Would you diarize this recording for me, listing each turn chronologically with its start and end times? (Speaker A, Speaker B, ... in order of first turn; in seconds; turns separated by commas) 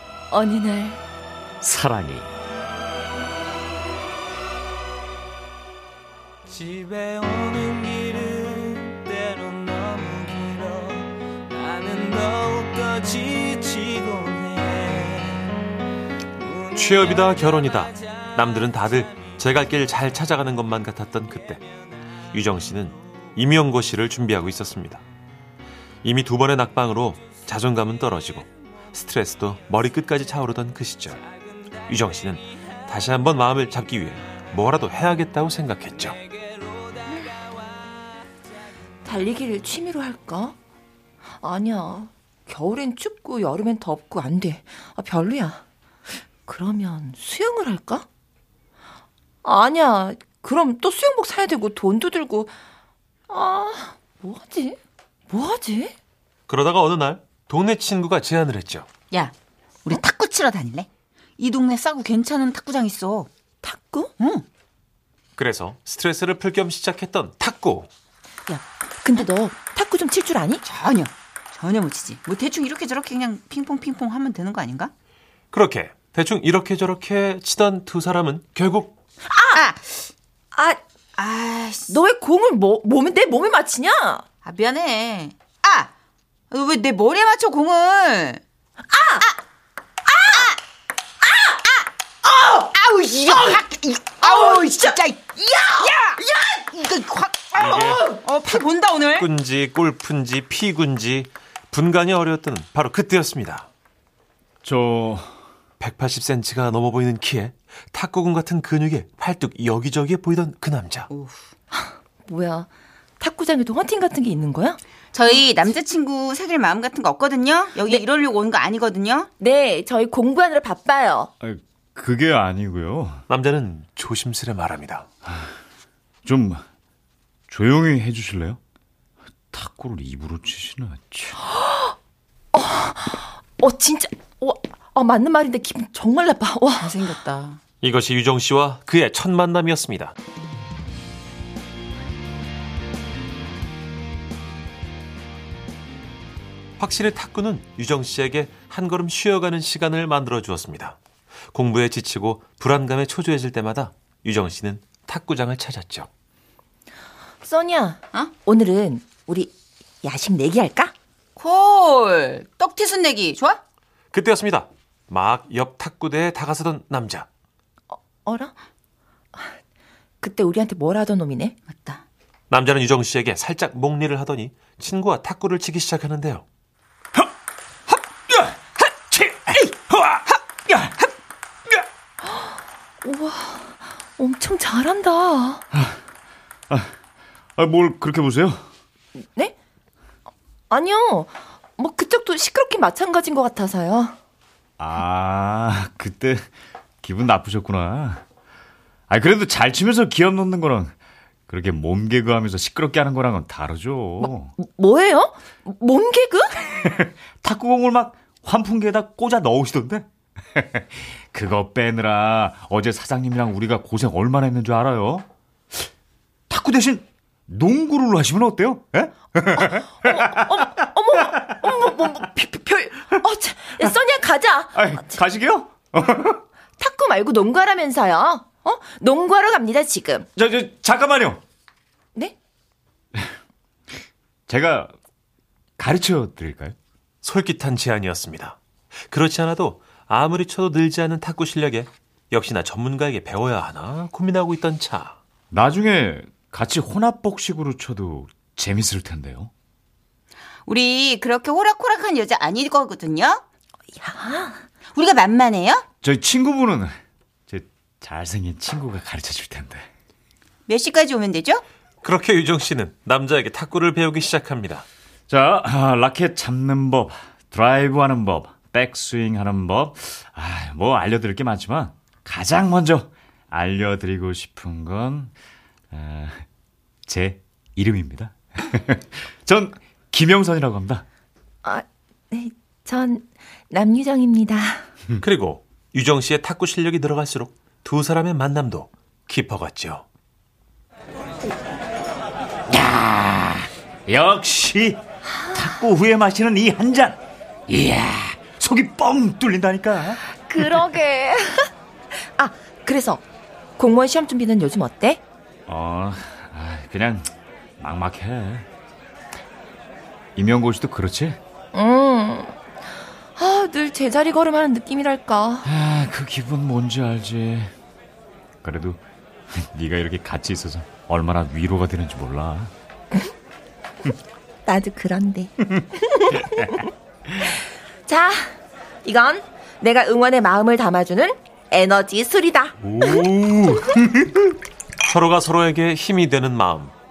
Speaker A: 0.3-1.0, Speaker B: 1.6-2.3, Speaker C: 6.5-15.5, Speaker C: 16.4-16.7, Speaker D: 16.7-21.6, Speaker D: 22.3-25.0, Speaker D: 26.0-31.2, Speaker D: 31.9-36.2, Speaker A: 39.0-40.6, Speaker A: 41.4-45.6, Speaker A: 46.5-48.1, Speaker A: 49.4-52.5, Speaker A: 53.3-56.0, Speaker D: 56.5-58.9, Speaker E: 59.9-63.3, Speaker A: 63.6-64.1, Speaker E: 64.2-64.5, Speaker D: 65.4-67.9, Speaker A: 68.5-70.6, Speaker E: 70.6-74.9, Speaker D: 75.5-79.0, Speaker A: 79.3-79.6, Speaker E: 79.5-80.1, Speaker A: 80.5-80.8, Speaker E: 81.2-82.0, Speaker A: 81.9-84.2, Speaker E: 84.4-85.9, Speaker E: 86.5-88.4, Speaker A: 88.9-89.3, Speaker A: 90.1-90.5, Speaker E: 90.3-90.6, Speaker A: 91.2-91.8, Speaker E: 92.2-99.3, Speaker A: 94.2-95.0, Speaker D: 97.6-98.6, Speaker D: 99.2-103.7, Speaker B: 104.6-105.4, Speaker D: 105.8-111.1, Speaker E: 111.1-111.5, Speaker A: 111.7-112.7, Speaker A: 113.2-114.8, Speaker E: 115.1-119.3, Speaker A: 119.4-121.3, Speaker B: 121.4-123.2, Speaker D: 123.3-125.1, Speaker B: 125.2-125.5, Speaker B: 126.2-126.6, Speaker B: 127.5-128.6, Speaker B: 129.5-131.4, Speaker A: 132.5-137.0, Speaker E: 136.8-137.6, Speaker D: 137.8-140.2, Speaker D: 146.8-151.0, Speaker D: 151.5-156.1, Speaker A: 157.4-160.9, Speaker E: 161.4-163.6, Speaker D: 164.1-167.3, Speaker A: 168.2-168.5, Speaker A: 170.2-171.6, Speaker E: 171.7-172.1, Speaker D: 172.5-176.4, Speaker B: 178.3-181.0, Speaker A: 182.2-185.6, Speaker B: 185.7-186.0, Speaker B: 186.7-186.9, Speaker B: 187.6-188.7, Speaker A: 189.2-189.6, Speaker A: 190.7-194.2, Speaker B: 194.8-196.5, Speaker B: 197.0-198.2, Speaker B: 199.1-200.9, Speaker B: 201.5-204.5, Speaker A: 204.2-206.6, Speaker B: 206.7-215.3, Speaker B: 216.5-221.9, Speaker A: 219.6-225.2, Speaker B: 224.7-226.4, Speaker A: 226.8-230.3, Speaker B: 230.4-231.4, Speaker B: 234.5-234.9, Speaker B: 235.8-236.8, Speaker D: 237.2-245.2, Speaker B: 245.5-249.5, Speaker E: 250.7-253.4, Speaker A: 253.9-254.6, Speaker E: 254.9-255.8, Speaker B: 256.0-256.9, Speaker B: 257.5-259.9, Speaker E: 260.7-261.6, Speaker D: 262.0-264.9, Speaker B: 265.3-275.3, Speaker B: 275.9-276.5, Speaker B: 277.1-281.1, Speaker A: 281.6-284.8, Speaker D: 285.2-290.1, Speaker B: 292.7-300.9, Speaker A: 300.5-303.2, Speaker A: 303.8-305.2, Speaker B: 305.7-308.7, Speaker B: 310.4-311.4, Speaker A: 311.7-312.6, Speaker A: 313.4-315.7, Speaker B: 315.6-317.7, Speaker B: 318.6-322.7, Speaker A: 324.6-326.9, Speaker B: 326.4-326.8, Speaker A: 327.6-333.3, Speaker D: 332.8-333.9, Speaker B: 333.9-334.4, Speaker D: 335.0-336.9